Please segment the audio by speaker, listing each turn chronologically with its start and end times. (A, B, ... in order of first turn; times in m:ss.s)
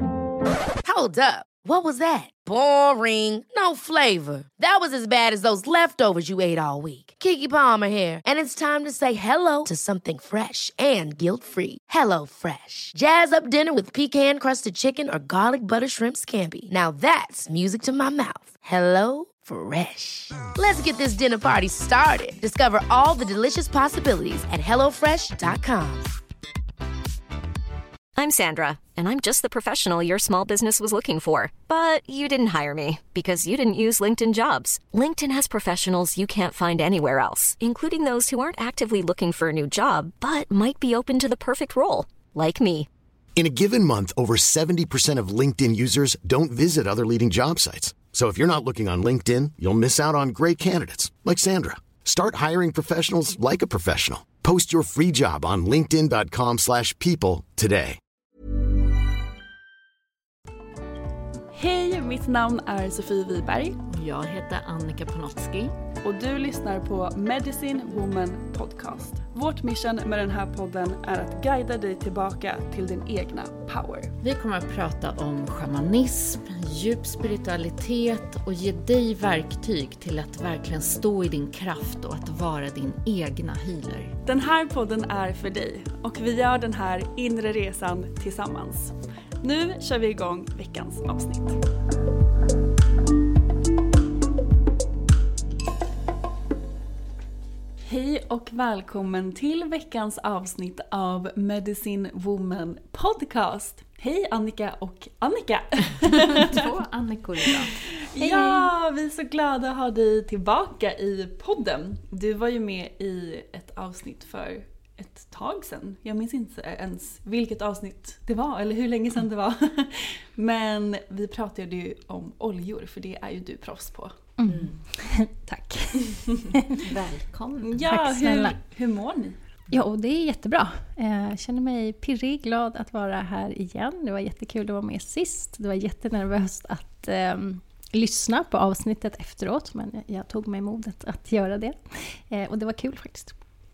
0:00.8-0:26.1 A
0:28.2-0:42.9 B
0:43.4-0:58.0 C
1:01.5-1:03.8 D
1:03.9-1:05.7 E
1:06.0-1:14.1 D
1:14.2-1:24.2 E
1:24.2-1:31.6 D
1:37.9-1:46.7 D
1:46.3-1:48.7 E
1:47.4-2:04.2 D
2:04.4-2:06.3 F
2:04.5-2:04.8 E
2:06.9-2:08.0 E
2:07.6-2:09.4 D
2:07.8-2:08.6 F
2:09.7-2:23.4 F